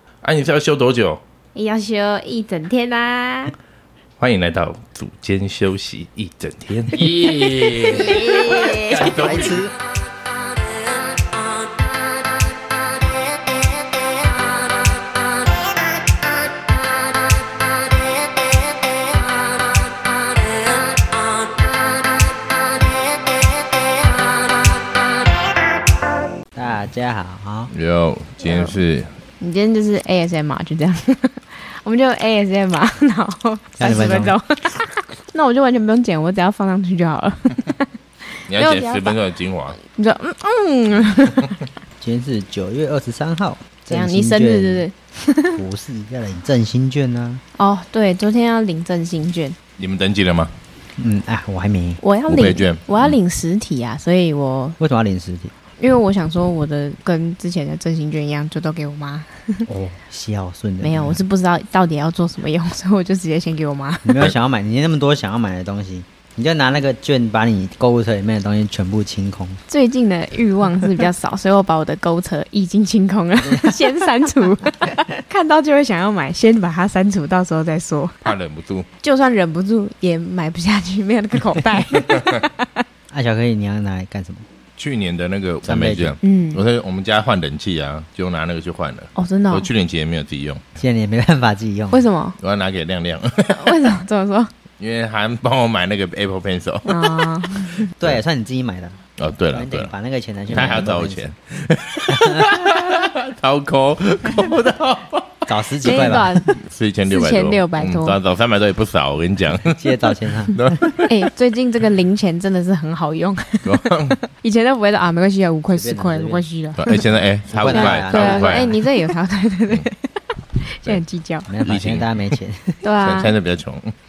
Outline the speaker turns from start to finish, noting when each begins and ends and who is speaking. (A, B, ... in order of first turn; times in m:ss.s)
0:00.2-0:01.2 A
0:01.5-0:03.5 B
0:04.2-0:09.7 A
0:07.0-0:07.7 C
0:07.8-0:09.0 B
0:08.9-0:09.7 C
0:26.5-0:27.7 C
0:27.7-0:29.1 A
0:28.4-0:28.7 B
0:29.4-0:37.9 B
0:33.8-0:34.4 C
0:38.5-0:39.2 B
0:38.5-0:39.8 A
0:39.8-0:41.5 B
0:42.0-0:44.8 C
0:43.9-0:45.6 B
0:45.6-0:47.4 C
0:47.6-0:49.6 B
0:49.8-0:50.5 A
0:51.0-0:52.0 C
0:52.0-0:54.8 B
0:52.3-0:53.1 A
0:54.8-0:55.5 C
0:55.8-0:59.6 B
0:59.7-1:01.2 C
1:00.8-1:04.2 B
1:04.0-1:09.6 C
1:09.7-1:18.2 B
1:13.5-1:13.8 C
1:18.2-1:18.9 A
1:19.0-1:22.7 B
1:23.1-1:24.4 C
1:24.8-1:30.6 A
1:25.6-1:26.2 C
1:26.2-1:26.6 B
1:29.1-1:29.7 B
1:30.8-1:32.0 C
1:31.9-1:32.4 B
1:32.4-1:33.8 A
1:33.6-1:34.5 B
1:34.8-1:37.2 A
1:36.8-1:37.8 B
1:38.0-1:39.0 C
1:39.2-1:39.9 A
1:39.5-1:41.3 C
1:40.5-1:49.8 A
1:42.1-1:42.7 C
1:45.5-1:46.3 C
1:45.8-1:48.2 B
1:49.7-1:50.7 C
1:50.5-1:51.1 A
1:51.1-1:57.0 B
1:53.6-1:54.2 A
1:55.7-1:56.4 C
1:56.8-1:58.8 A
1:57.5-1:58.7 C
1:57.7-2:01.5 B
2:01.5-2:02.8 C
2:01.6-2:02.1 A
2:02.8-2:03.3 B
2:03.0-2:03.9 A